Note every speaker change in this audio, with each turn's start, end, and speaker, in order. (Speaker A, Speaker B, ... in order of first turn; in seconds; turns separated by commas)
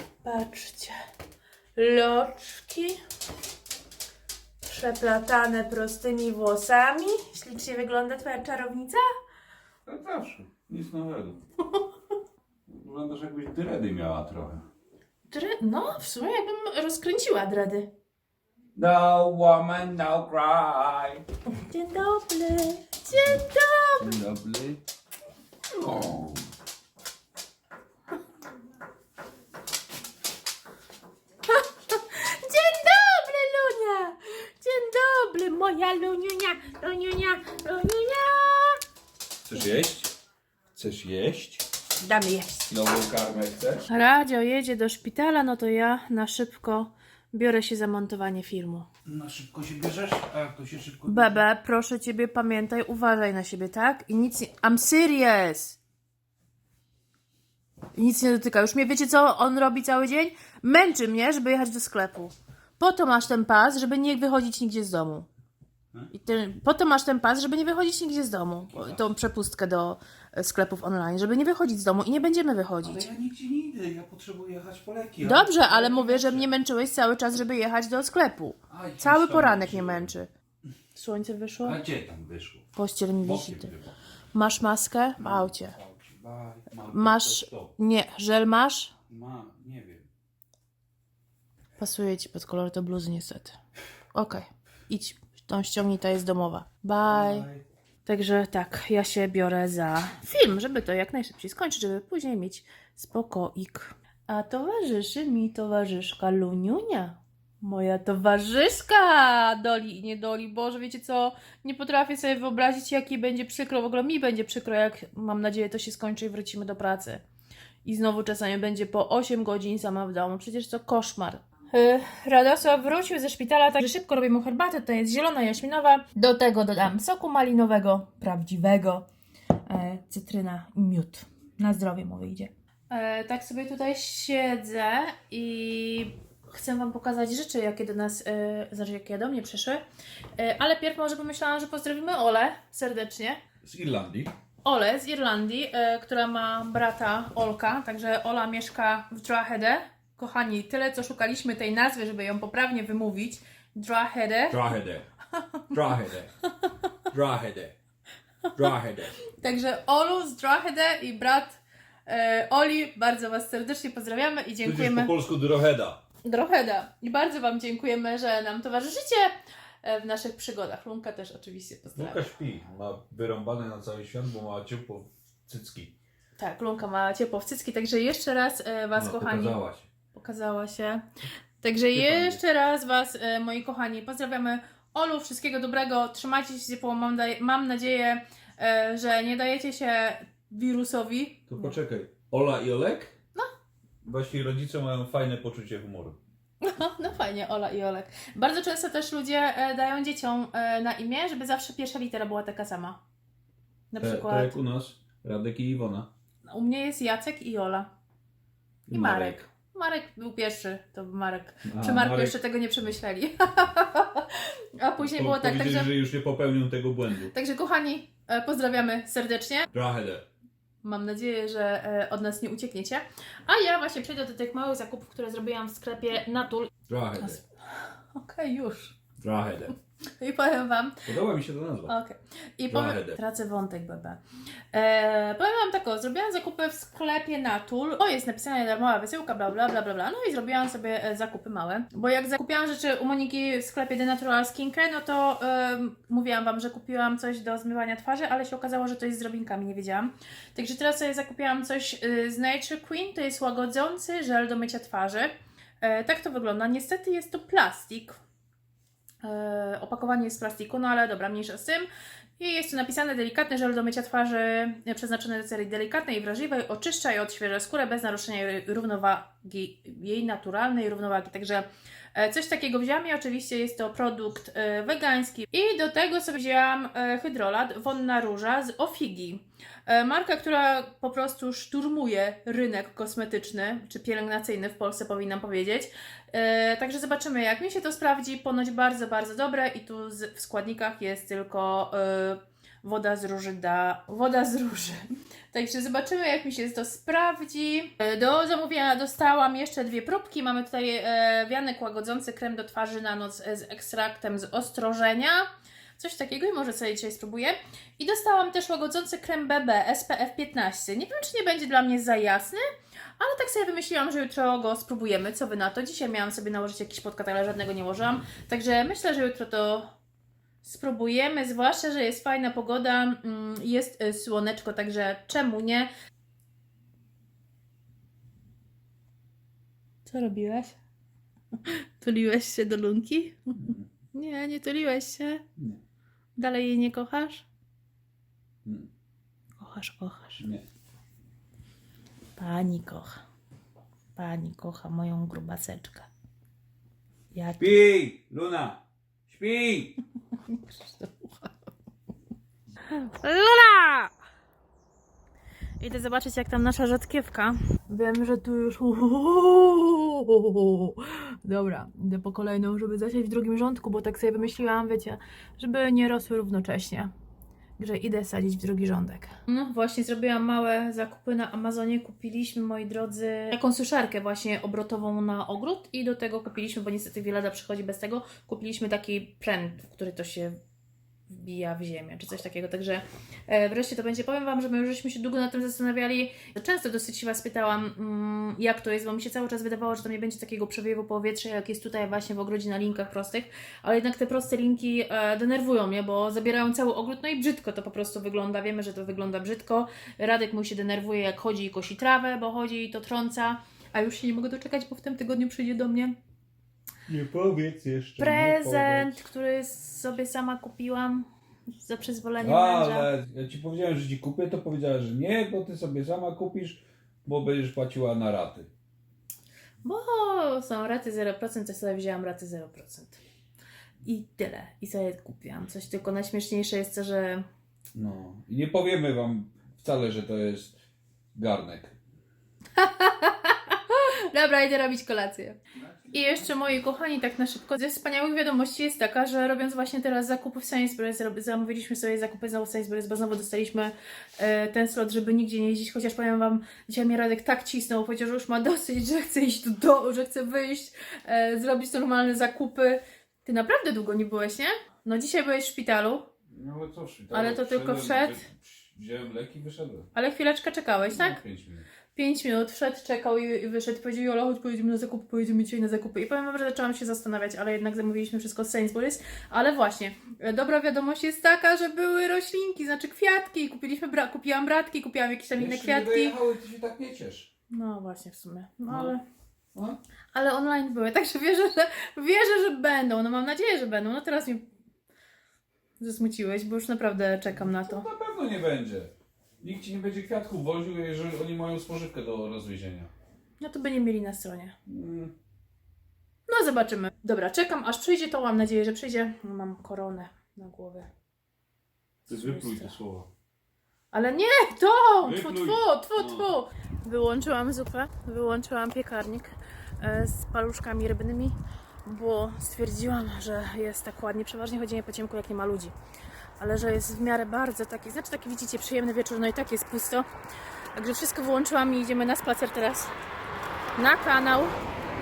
Speaker A: 0.2-1.0, Speaker A: 1.8-3.0, Speaker A: 4.6-9.0, Speaker B: 9.9-11.4, Speaker B: 12.7-14.7, Speaker A: 15.3-17.9, Speaker B: 18.8-21.2, Speaker A: 21.5-24.2, Speaker B: 23.1-23.4, Speaker B: 24.0-24.8, Speaker B: 25.7-26.5, Speaker A: 31.5-38.8, Speaker B: 39.5-40.1, Speaker B: 40.8-41.6, Speaker A: 42.0-42.7, Speaker B: 42.7-43.9, Speaker A: 43.9-48.9, Speaker B: 49.1-51.4, Speaker A: 51.1-55.8, Speaker A: 58.0-65.3, Speaker A: 66.1-73.1, Speaker B: 68.7-69.0, Speaker B: 72.8-76.5, Speaker A: 75.2-80.3, Speaker B: 78.7-80.1, Speaker A: 81.0-81.8, Speaker B: 81.6-82.7, Speaker A: 82.7-83.7, Speaker B: 83.2-83.9, Speaker A: 84.3-85.8, Speaker B: 85.2-87.7, Speaker A: 86.9-88.9, Speaker B: 89.1-90.1, Speaker A: 91.8-93.6, Speaker A: 94.1-97.5, Speaker B: 97.0-97.6, Speaker A: 98.0-117.2, Speaker A: 117.8-129.1, Speaker A: 129.7-139.8, Speaker A: 140.4-143.4, Speaker B: 143.6-144.3, Speaker A: 144.6-154.6, Speaker B: 154.5-155.1, Speaker B: 155.7-156.3, Speaker B: 157.1-157.8, Speaker B: 158.6-159.2, Speaker A: 159.2-165.1, Speaker B: 164.6-166.0, Speaker A: 166.2-172.3, Speaker B: 172.0-175.9, Speaker A: 176.4-179.6, Speaker B: 178.9-179.9, Speaker A: 180.1-181.1, Speaker A: 181.6-191.8, Speaker B: 181.9-182.4, Speaker B: 191.5-193.1, Speaker B: 194.0-196.2, Speaker A: 196.6-203.0, Speaker A: 203.9-204.6, Speaker B: 204.0-206.1, Speaker A: 206.5-207.9, Speaker A: 208.9-215.9, Speaker B: 208.9-209.4, Speaker B: 211.7-212.4, Speaker B: 215.0-217.3, Speaker A: 217.2-219.7, Speaker B: 219.7-220.3, Speaker A: 220.8-229.0, Speaker B: 226.9-227.4, Speaker B: 229.2-229.7, Speaker A: 230.2-231.1, Speaker B: 231.1-231.9, Speaker A: 231.9-234.2, Speaker B: 232.7-233.2, Speaker A: 234.7-258.2, Speaker A: 259.2-312.6, Speaker A: 313.2-319.9, Speaker A: 320.6-325.9, Speaker A: 330.1-330.8, Speaker A: 331.6-335.4, Speaker B: 333.6-333.9, Speaker A: 336.4-337.5, Speaker B: 338.6-338.9, Speaker A: 339.6-340.4, Speaker A: 342.4-343.2, Speaker A: 344.2-346.1, Speaker A: 347.3-347.9, Speaker B: 347.6-350.0, Speaker A: 350.5-351.7, Speaker A: 352.8-354.1, Speaker A: 355.8-367.1, Speaker A: 367.8-380.6, Speaker A: 381.3-406.2, Speaker B: 407.1-409.2, Speaker A: 408.2-411.3, Speaker A: 411.8-413.1, Speaker B: 412.4-418.7, Speaker A: 419.8-423.2, Speaker A: 424.0-427.5, Speaker B: 427.9-430.8, Speaker B: 431.3-432.0, Speaker A: 432.8-456.3, Speaker B: 456.5-460.1, Speaker A: 457.3-458.4, Speaker A: 460.1-461.4, Speaker B: 461.1-461.9, Speaker A: 462.1-476.4, Speaker B: 475.6-477.5, Speaker A: 477.7-479.2, Speaker B: 478.9-479.2, Speaker A: 480.3-484.7, Speaker A: 486.0-488.1, Speaker B: 487.5-493.1, Speaker A: 493.6-494.8, Speaker B: 494.9-495.3, Speaker A: 496.5-501.1, Speaker A: 502.3-503.0, Speaker B: 502.3-503.3, Speaker A: 504.1-516.0, Speaker B: 505.2-506.5, Speaker A: 516.6-520.3, Speaker A: 521.0-523.1, Speaker A: 524.0-524.8